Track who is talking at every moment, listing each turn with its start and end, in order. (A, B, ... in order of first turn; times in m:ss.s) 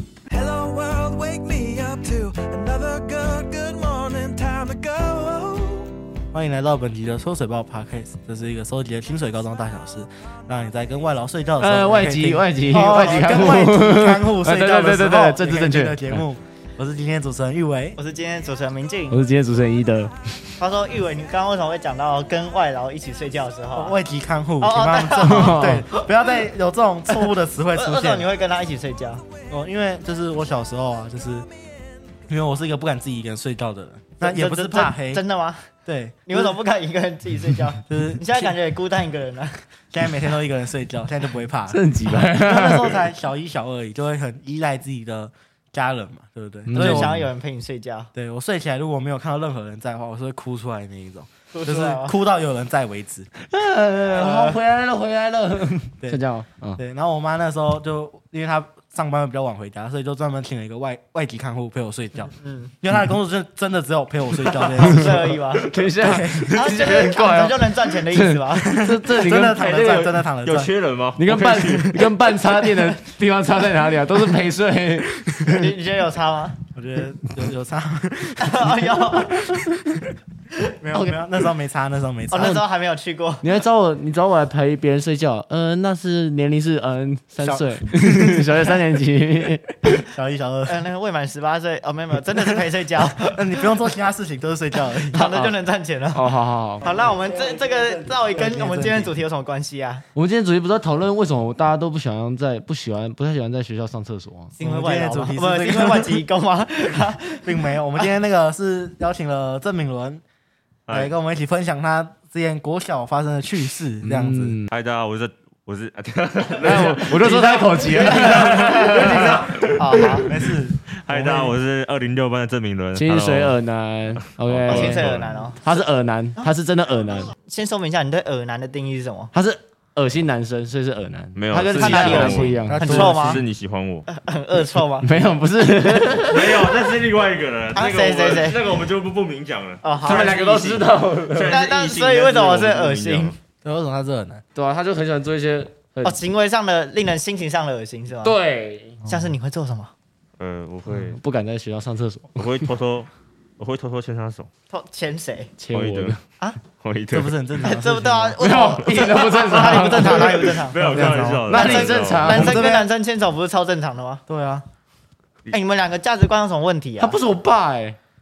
0:00.3-0:05.9 A
0:06.3-0:18.0 B
0:11.6-0:16.2 C
0:12.8-0:13.5 D
0:18.0-0:19.2 D
0:19.1-0:20.4 C
0:20.6-0:23.9 D
0:23.7-0:28.2 B
0:24.6-0:26.0 D
0:25.2-0:25.8 C
0:27.1-0:29.2 D
0:29.5-0:31.5 B
0:32.3-0:35.2 B
0:34.2-0:35.6 D
0:35.8-0:36.6 B
0:36.3-0:39.6 D
0:37.9-0:38.5 B
0:39.9-0:47.2 B
0:41.7-0:43.0 C
0:46.7-0:47.1 C
0:46.7-0:48.1 D
0:48.1-0:53.3 B
0:51.5-0:52.1 D
0:53.4-0:56.8 C
0:54.1-0:54.6 D
0:56.8-1:05.4 B
1:02.4-1:02.7 D
1:04.8-1:05.7 D
1:04.8-1:09.6 C
1:06.0-1:06.6 B
1:06.5-1:08.8 D
1:08.5-1:10.7 B
1:09.4-1:12.1 E
1:11.2-1:15.7 C
1:15.5-1:16.6 D
1:16.7-1:18.8 B
1:18.4-1:19.6 D
1:20.8-1:22.6 B
1:22.3-1:23.5 D
1:23.4-1:30.0 C
1:27.4-1:28.4 B
1:30.1-1:30.8 B
1:30.7-1:33.4 D
1:33.3-1:35.5 B
1:35.1-1:36.3 D
1:36.1-1:36.8 C
1:36.8-1:40.0 D
1:36.8-1:39.1 B
1:40.1-1:44.5 C
1:44.6-1:47.5 D
1:44.6-1:46.2 B
1:47.4-1:50.2 B
1:50.9-1:51.1 E
1:50.9-1:54.6 B
1:54.0-1:54.7 C
1:54.7-2:03.6 E
1:56.6-1:59.4 C
1:57.2-1:59.6 B
1:59.8-2:00.3 D
2:00.2-2:01.6 B
2:02.9-2:07.3 C
2:04.2-2:05.4 E
2:04.6-2:05.7 D
2:07.2-2:09.3 D
2:09.3-2:13.1 C
2:11.3-2:14.1 E
2:11.8-2:13.4 D
2:12.7-2:13.4 B
2:14.1-2:15.1 D
2:15.0-2:16.5 C
2:16.3-2:23.4 E
2:17.7-2:18.6 D
2:19.8-2:20.4 D
2:20.0-2:21.6 C
2:21.5-2:23.4 D
2:23.6-2:24.4 B
2:24.5-2:26.2 C
2:26.0-2:28.4 D
2:28.2-2:29.0 C
2:29.0-2:29.3 B
2:29.0-2:29.9 D
2:30.4-2:31.2 E
2:30.9-2:32.6 C
2:32.4-2:34.5 E
2:34.7-2:35.5 D
2:35.6-2:36.2 C
2:35.7-2:36.2 E
2:36.8-2:37.3 E
2:37.1-2:38.4 B
2:37.6-2:44.2 D
2:38.4-2:40.4 C
2:38.9-2:42.4 E
2:40.8-2:41.5 B
2:41.5-2:42.6 C
2:42.2-2:42.9 B
2:44.3-2:44.6 B
2:45.5-2:47.2 D
2:47.0-2:48.0 C